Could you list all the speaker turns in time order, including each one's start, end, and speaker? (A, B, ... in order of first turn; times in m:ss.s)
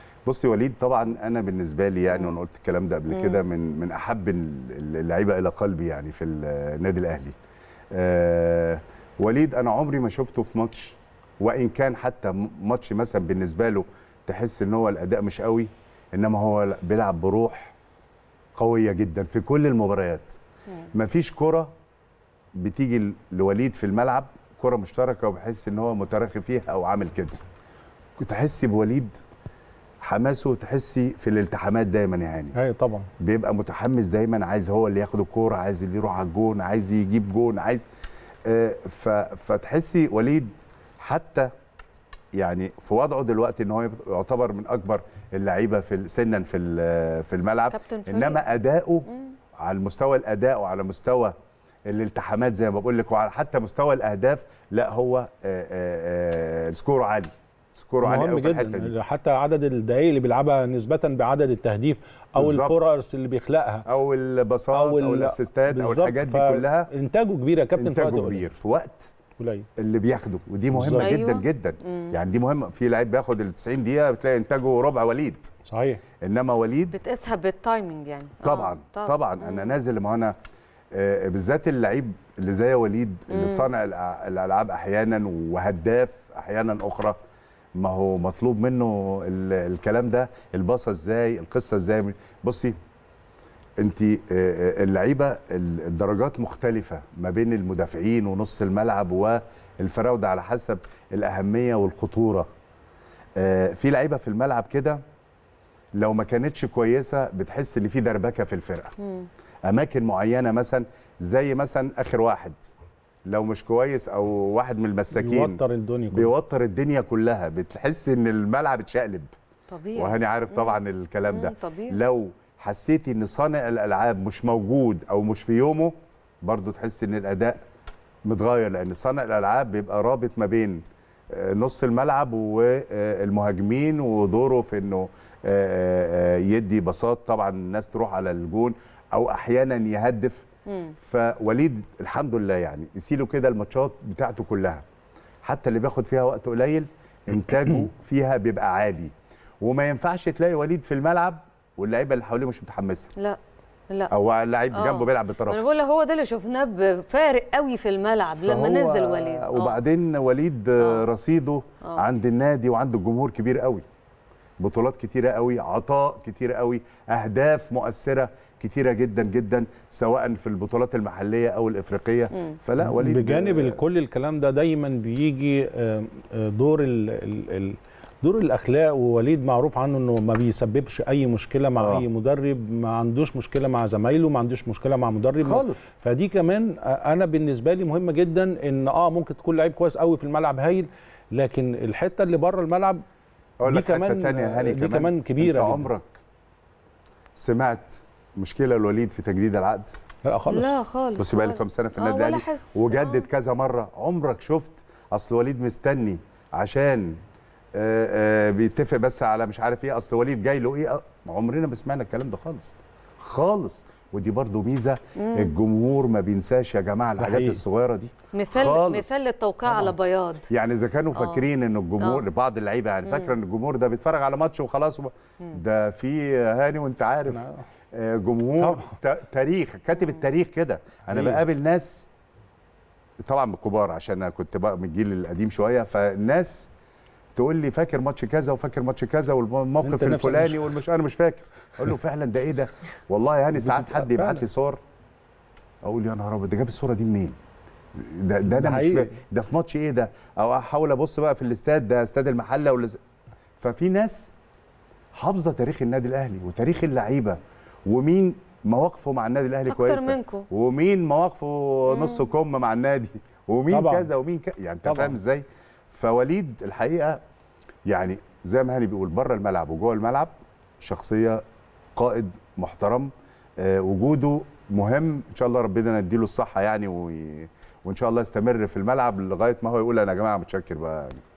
0:00.3-0:07.4 A
0:02.1-0:02.4 B
0:03.1-0:03.4 B
0:07.9-0:17.8 A
0:18.6-0:20.4 A
0:20.9-0:21.7 A
0:22.6-0:27.4 A
0:28.2-0:29.2 A
0:30.0-0:32.6 A
0:32.5-0:33.1 C
0:33.2-0:37.9 A
0:38.5-0:41.5 A
0:42.4-0:49.1 A
0:47.7-0:48.4 B
0:49.6-0:51.4 A
0:51.9-0:58.9 A
0:58.0-1:03.9 C
1:02.4-1:02.8 A
1:03.9-1:06.9 A
1:04.7-1:08.4 C
1:07.8-1:09.1 A
1:09.4-1:09.7 C
1:09.8-1:15.5 A
1:10.7-1:11.1 C
1:11.0-1:12.1 B
1:15.7-1:16.0 C
1:16.2-1:16.9 A
1:16.9-1:19.8 B
1:18.4-1:20.3 A
1:20.9-1:27.2 A
1:23.3-1:23.7 B
1:27.8-1:32.8 A
1:33.8-1:42.5 A
1:43.4-1:45.0 A
1:46.0-1:49.0 A
1:49.7-1:52.6 A
1:53.3-1:59.3 A
1:55.1-1:56.3 C
1:59.7-2:00.8 B
2:00.0-2:07.6 A
2:01.3-2:02.0 B
2:08.3-2:20.4 A
2:20.7-2:20.9 B
2:21.0-2:24.8 A
2:25.4-2:33.1 A
2:34.1-2:35.6 A
2:34.7-2:39.8 B
2:38.4-2:43.8 A
2:40.8-2:41.0 B
2:44.6-2:53.8 A
2:52.8-3:13.0 C
3:01.8-3:02.0 A
3:05.4-3:05.8 A
3:13.6-3:16.2 A
3:13.7-3:15.9 C
3:17.4-3:19.9 A
3:20.2-3:20.7 C
3:20.5-3:23.3 B
3:21.2-3:27.2 A
3:27.8-3:39.3 A
3:35.2-3:35.6 B
3:37.2-3:37.6 C
3:38.3-3:40.5 B
3:40.5-3:52.1 A
3:41.2-3:41.4 B
3:42.0-3:42.3 B
3:43.1-3:43.4 B
3:47.3-3:47.6 C
3:48.6-3:49.0 C
3:51.1-3:51.4 C
3:53.2-3:56.7 A
3:57.4-4:04.8 A
3:59.8-4:00.8 C
4:03.6-4:04.4 C
4:05.8-4:07.4 A
4:08.0-4:13.0 A
4:08.5-4:09.1 C
4:13.6-4:14.3 A
4:15.2-4:27.2 A
4:19.7-4:20.5 B
4:21.9-4:22.3 B
4:23.7-4:24.1 C
4:24.8-4:25.2 C
4:27.9-4:31.4 A
4:32.0-4:41.2 A